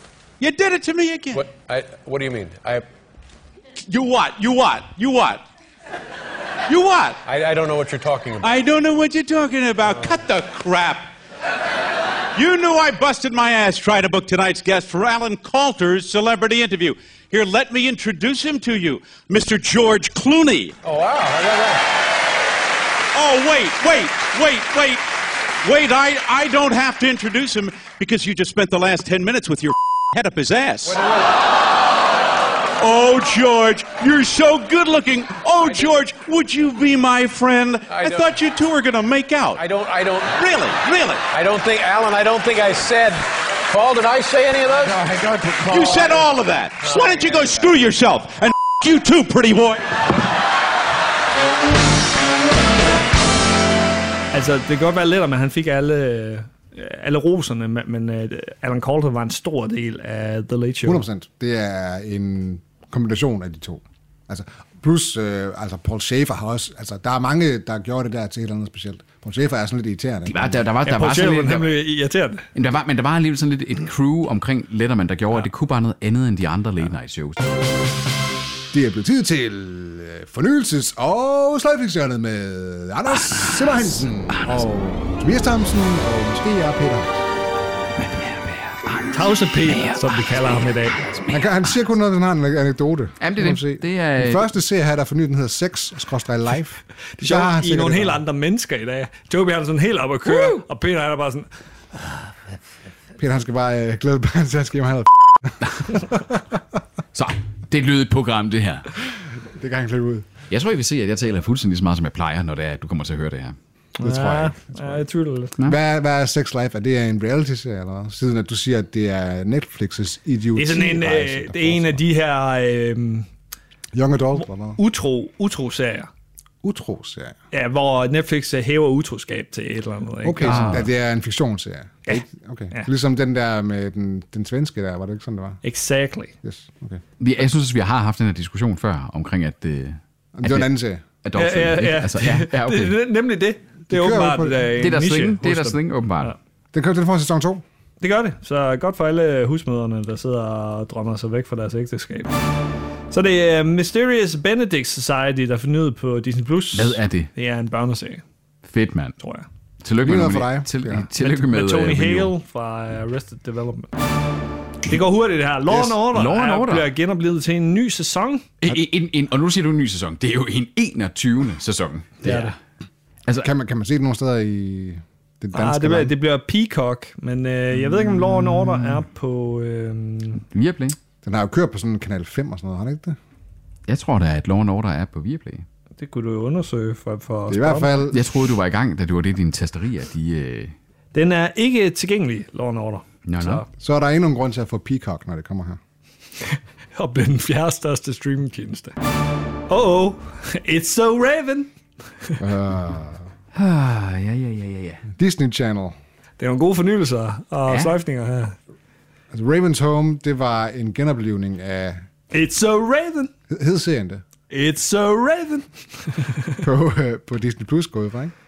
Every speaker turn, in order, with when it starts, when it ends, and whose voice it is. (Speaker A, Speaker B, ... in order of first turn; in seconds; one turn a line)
Speaker A: 0.4-1.4
Speaker B: 1.3-2.9
Speaker A: 3.9-5.4
Speaker A: 6.7-7.2
Speaker B: 7.2-8.6
Speaker A: 8.4-11.1
Speaker A: 12.3-20.8
Speaker B: 20.8-21.9
Speaker A: 23.1-31.0
Speaker B: 30.9-31.4
Speaker A: 32.8-39.6
Speaker B: 37.9-38.3
Speaker B: 39.6-40.4
Speaker A: 40.3-41.3
Speaker B: 41.3-46.3
Speaker A: 45.7-50.0
Speaker B: 46.9-47.7
Speaker C: 54.3-61.0
Speaker D: 60.8-70.6
Speaker E: 70.2-71.7
Speaker C: 70.8-72.4
Speaker E: 72.5-77.4
Speaker D: 78.7-87.3
Speaker E: 83.3-84.6
Speaker E: 88.0-91.6
Speaker C: 89.0-91.0
Speaker D: 91.3-98.2
Speaker E: 93.2-94.5
Speaker C: 97.2-101.5
Speaker E: 100.2-100.6
Speaker D: 103.2-106.4
Speaker E: 107.1-108.9
Speaker D: 109.5-110.3
Speaker E: 110.5-113.5
Speaker C: 114.0-115.5
Speaker D: 114.0-115.0
Speaker D: 115.6-122.0
Speaker C: 120.5-123.3
Speaker D: 123.9-124.8
Speaker C: 124.8-126.1
Speaker D: 126.6-127.3
Speaker C: 127.5-130.8
Speaker D: 130.2-135.6
Speaker E: 130.4-130.9
Speaker C: 132.1-132.9
Speaker C: 135.6-136.3
Speaker D: 136.4-137.0
Speaker E: 137.2-140.7
Speaker D: 140.3-141.0
Speaker E: 141.2-143.0
Speaker C: 141.3-146.3
Speaker D: 143.9-144.7
Speaker E: 144.8-146.3
Speaker D: 146.7-147.6
Speaker C: 148.0-152.3
Speaker C: 153.1-158.2
Speaker E: 156.7-157.3
Speaker E: 158.6-159.2
Speaker C: 159.2-159.5
Speaker E: 159.8-162.3
Speaker D: 160.0-161.1
Speaker C: 161.2-163.9
Speaker C: 164.8-168.5
Speaker E: 165.8-166.9
Speaker E: 168.6-172.6
Speaker C: 172.2-172.5
Speaker D: 173.4-176.1
Speaker C: 175.5-180.4
Speaker E: 180.5-180.9
Speaker D: 181.2-183.2
Speaker E: 183.9-185.6
Speaker C: 186.0-188.1
Speaker D: 187.5-188.2
Speaker E: 188.1-190.7
Speaker C: 191.1-193.7
Speaker E: 193.2-193.6
Speaker D: 193.8-195.8
Speaker C: 196.5-198.9
Speaker C: 199.7-202.4
Speaker D: 202.4-203.2
Speaker E: 203.5-205.0
Speaker D: 205.1-205.9
Speaker C: 206.4-208.6
Speaker E: 207.7-207.9
Speaker D: 209.3-212.0
Speaker C: 212.3-213.3
Speaker D: 213.5-214.2
Speaker C: 214.5-216.6
Speaker D: 216.6-218.3